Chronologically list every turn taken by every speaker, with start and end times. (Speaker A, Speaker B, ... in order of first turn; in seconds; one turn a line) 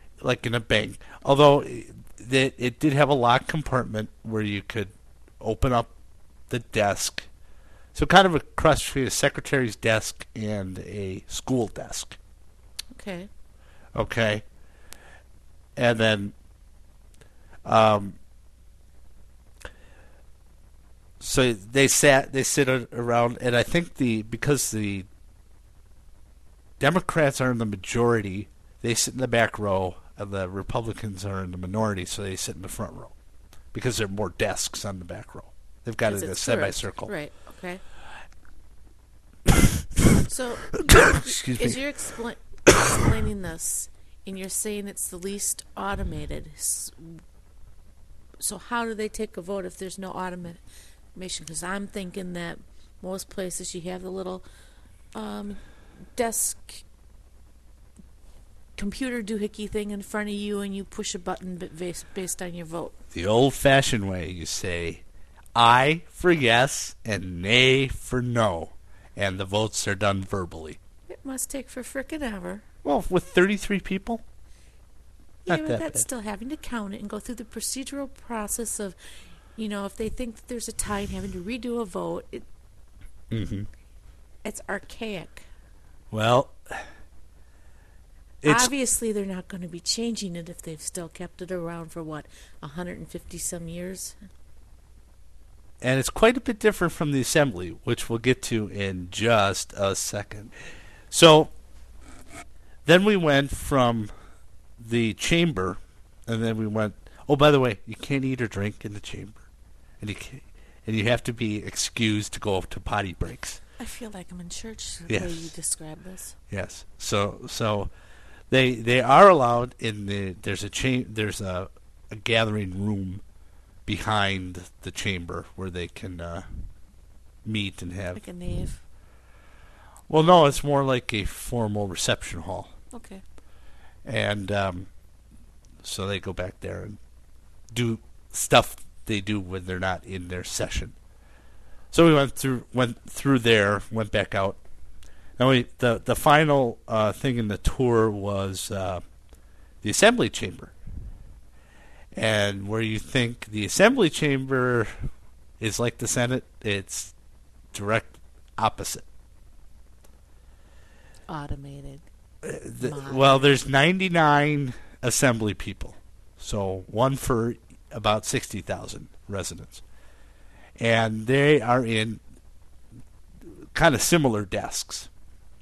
Speaker A: 0.2-5.9
Speaker A: 6.5-7.3
Speaker A: 7.9-12.2
Speaker B: 12.9-13.3
Speaker A: 13.9-14.4
Speaker A: 15.8-16.3
Speaker A: 17.6-18.2
Speaker A: 21.2-25.1
Speaker A: 26.8-33.1
Speaker A: 33.7-37.1
Speaker B: 36.0-37.8
Speaker B: 40.2-47.2
Speaker A: 41.0-41.8
Speaker B: 48.4-50.6
Speaker B: 51.1-54.4
Speaker B: 55.1-55.6
Speaker B: 56.1-56.8
Speaker B: 58.8-62.9
Speaker A: 63.1-65.0
Speaker A: 65.5-70.8
Speaker B: 71.1-72.6
Speaker A: 72.8-74.2
Speaker B: 75.4-79.0
Speaker A: 75.5-76.0
Speaker B: 79.5-82.5
Speaker A: 83.3-83.7
Speaker B: 84.4-85.5
Speaker A: 86.1-86.8
Speaker A: 88.4-88.7
Speaker B: 88.4-94.2
Speaker A: 95.8-100.5
Speaker A: 101.1-101.5
Speaker A: 102.8-104.1
Speaker A: 104.8-109.4
Speaker A: 110.0-113.6
Speaker B: 113.8-116.4
Speaker A: 115.1-115.5
Speaker A: 116.5-117.9
Speaker A: 118.5-123.2
Speaker A: 123.8-126.6
Speaker A: 127.4-128.2
Speaker B: 128.1-128.8
Speaker A: 130.1-132.7
Speaker B: 132.9-133.2
Speaker A: 134.0-134.9
Speaker A: 135.8-137.0
Speaker A: 137.7-140.9
Speaker A: 141.9-144.6
Speaker A: 145.4-149.0
Speaker A: 149.8-150.7
Speaker A: 152.1-155.1
Speaker A: 155.6-157.1
Speaker A: 157.7-159.0
Speaker B: 161.3-162.1
Speaker A: 162.4-169.8
Speaker B: 162.8-163.5
Speaker A: 170.8-172.2
Speaker A: 173.7-175.1